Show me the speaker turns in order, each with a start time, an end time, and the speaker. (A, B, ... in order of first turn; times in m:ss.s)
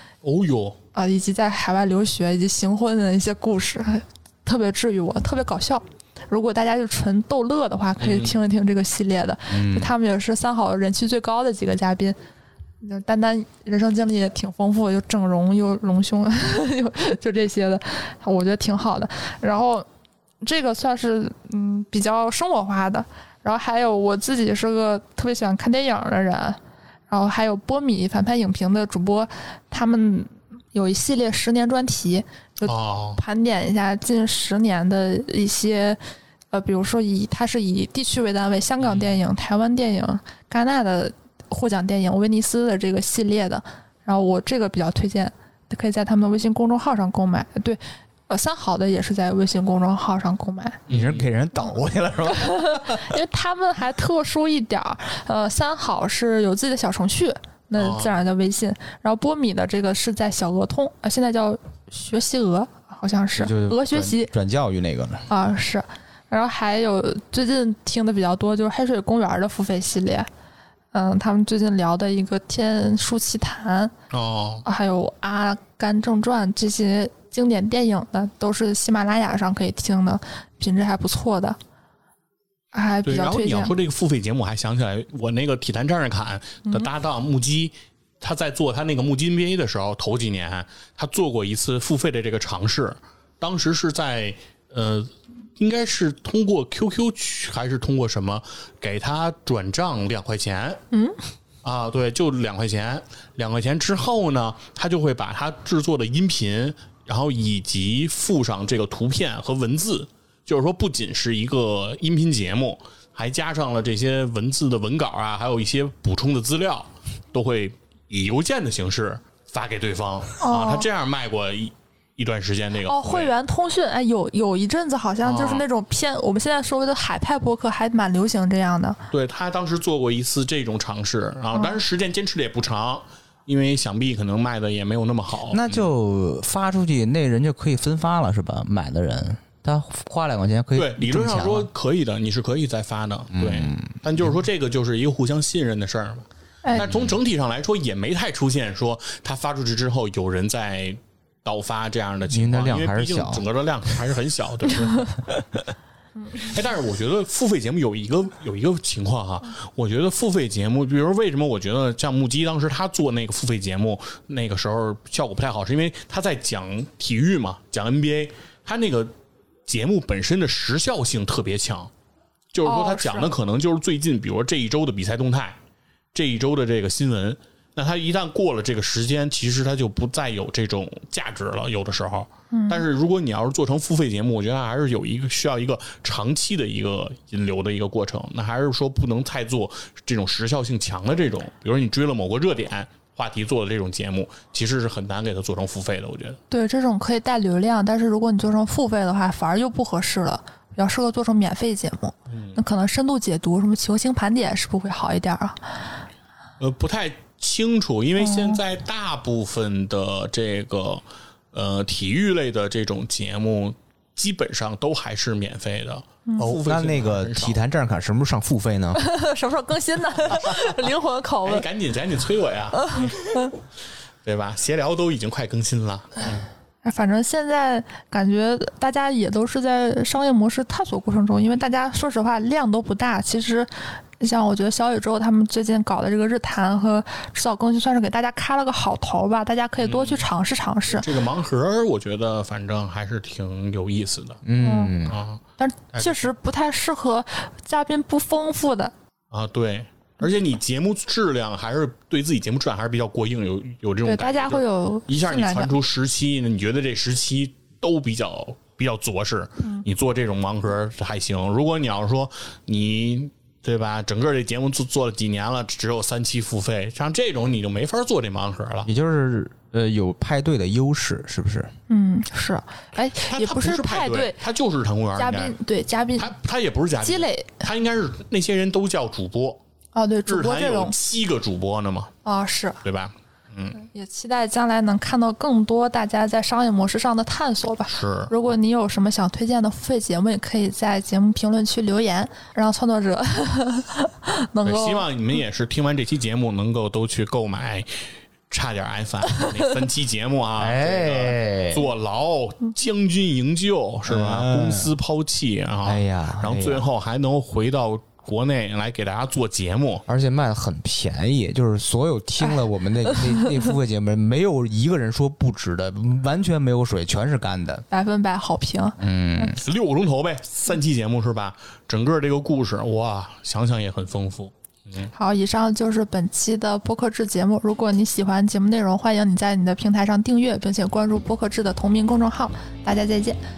0:00.2-0:00.8 A
0:00.9-0:12.2 B
0:08.0-0:08.3 A
0:09.5-0:09.9 C
0:12.8-0:19.8 B
0:20.4-0:26.6 B
0:27.1-0:36.0 B
0:32.6-0:33.2 A
0:36.5-0:50.8 B
0:38.8-0:39.2 A
0:50.9-0:53.0 C
0:50.9-0:51.3 A
0:52.3-1:04.3 B
0:57.8-0:58.2 A
1:03.4-1:05.2 C
1:05.3-1:10.3 B
1:10.9-1:13.9 B
1:14.1-1:14.6 A
1:14.6-1:21.6 B
1:22.7-1:23.7 B
1:23.0-1:40.8 A
1:40.9-1:41.2 B
1:41.6-2:03.3 A
2:00.4-2:00.9 B
2:02.8-2:09.0 B
2:05.2-2:05.6 A
2:09.1-2:15.8 A
2:15.5-2:21.7 C
2:20.7-2:35.1 A
2:23.3-2:24.3 C
2:26.7-2:27.2 C
2:32.3-2:33.4 C
2:35.2-2:35.6 C
2:36.3-2:49.1 A
2:49.6-2:51.9 A
2:52.5-2:55.6 A
2:52.6-2:53.3 B
2:56.1-3:16.4 A
3:02.5-3:02.8 B
3:16.5-3:25.6 B
3:22.3-3:22.6 A
3:26.6-3:37.6 A
3:28.2-3:28.6 B
3:36.2-3:36.5 B
3:36.4-3:39.0 C
3:39.0-3:41.6 B
3:41.4-3:43.4 A
3:42.7-3:43.5 B
3:44.2-3:46.4 A
3:46.8-4:01.1 B
3:59.8-4:00.3 A
4:00.9-4:04.4 A
4:04.4-4:05.2 C
4:04.6-4:08.9 B
4:05.1-4:05.4 A
4:05.9-4:06.3 A
4:09.3-4:28.9 A
4:14.0-4:15.7 B
4:28.8-4:31.7 C
4:31.9-4:34.4 B
4:33.3-4:35.6 A
4:35.2-4:36.3 B
4:36.2-4:39.6 A
4:37.0-4:37.7 B
4:39.9-4:40.9 B
4:40.2-4:42.1 A
4:42.2-4:42.8 B
4:42.8-4:43.8 A
4:43.8-4:55.1 B
4:47.9-4:48.3 A
4:54.6-5:10.0 A
5:00.6-5:01.9 C
5:04.1-5:04.9 C
5:05.8-5:06.8 C
5:10.1-5:17.8 C
5:13.1-5:13.6 B
5:17.9-5:19.6 B
5:19.0-5:19.6 C
5:19.6-5:25.1 A
5:25.1-5:33.4 B